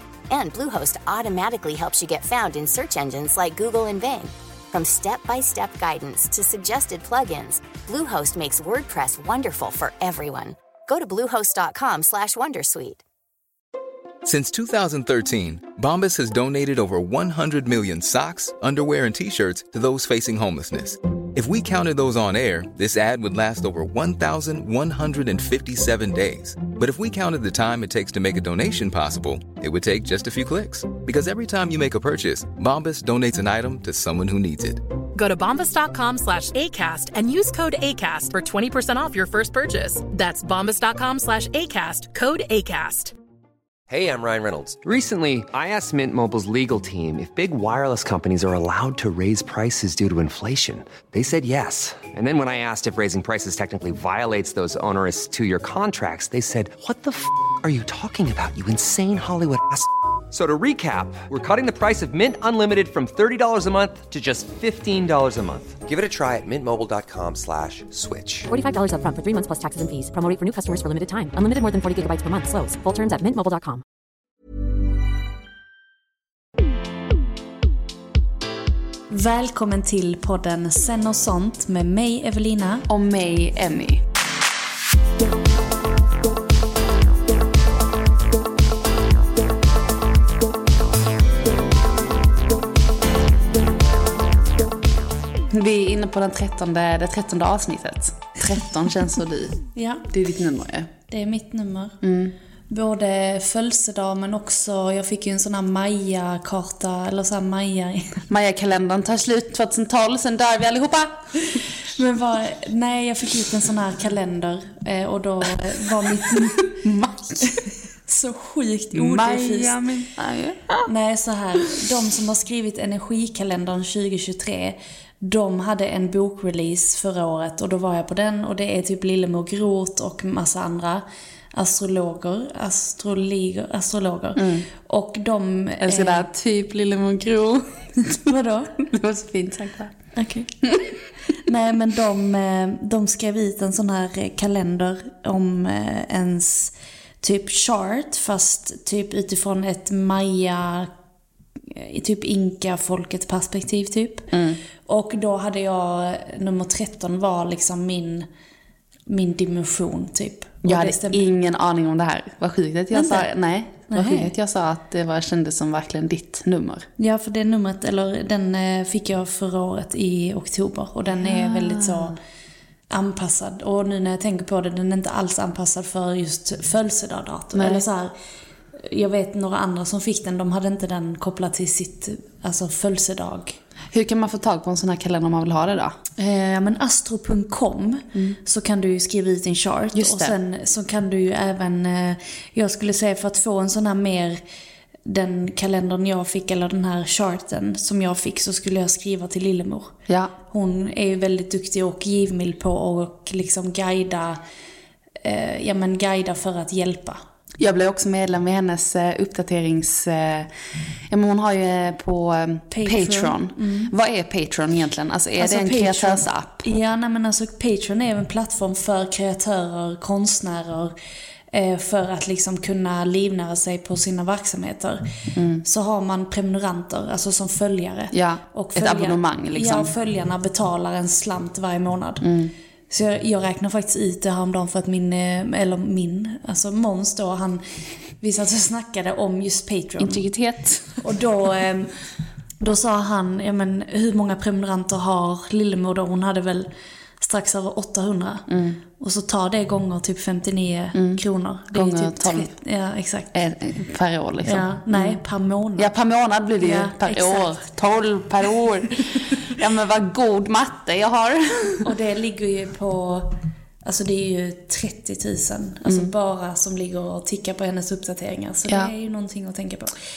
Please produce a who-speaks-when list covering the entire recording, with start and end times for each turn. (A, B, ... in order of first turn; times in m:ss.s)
0:00.3-0:13.0 A
0:14.2-0:34.8 B
0:35.2-0:43.1 C
0:43.9-1:08.5 D
1:08.5-1:13.8 E
1:19.1-1:22.9 F
1:22.9-1:24.0 G
1:35.5-1:40.9 G
1:39.8-1:40.1 F
1:41.1-1:42.0 F
1:42.0-1:42.4 G
1:42.7-1:48.2 F
1:48.3-1:51.6 G
1:52.0-1:56.7 F
1:56.3-1:57.6 G
1:57.5-1:59.8 F
1:58.9-2:00.9 G
2:00.9-2:16.3 F
2:14.4-2:14.7 G
2:15.8-2:18.2 G
2:18.3-2:18.8 F
2:18.9-2:20.0 G
2:20.1-2:20.5 F
2:21.4-2:30.9 F
2:31.8-2:34.3 F
2:34.3-2:34.6 G
2:34.9-2:38.3 F
2:39.1-2:41.2 F
2:40.6-2:46.9 G
2:42.9-2:43.3 F
2:43.9-2:44.3 F
2:47.0-2:52.2 F
2:51.2-2:52.2 G
2:52.9-2:58.1 F
2:57.5-2:57.8 G
2:58.8-3:03.6 F
3:03.9-3:06.0 G
3:06.2-3:14.4 F
3:09.9-3:10.4 G
3:15.1-3:19.9 F
3:20.1-3:20.3 G
3:20.5-3:24.4 F
3:25.2-3:27.2 F
3:27.6-3:30.5 G
3:31.1-3:36.6 G
3:32.7-3:33.9 F
3:35.4-3:40.9 F
3:41.5-3:45.0 F
3:45.4-3:45.6 G
3:45.6-3:52.3 F
3:48.1-3:49.9 G
3:52.2-3:52.5 G
3:52.9-3:57.6 F
3:58.2-4:00.2 F
4:00.0-4:01.0 G
4:01.0-4:01.9 F
4:02.6-4:06.7 F
4:07.2-4:08.5 F
4:08.5-4:08.8 G
4:09.0-4:13.3 F
4:10.9-4:11.2 G
4:11.7-4:12.5 G
4:13.3-4:15.2 G
4:14.4-4:15.9 F
4:15.8-4:21.9 G
4:16.6-4:17.5 F
4:21.8-4:23.3 F
4:23.8-4:29.9 F
4:25.8-4:26.1 G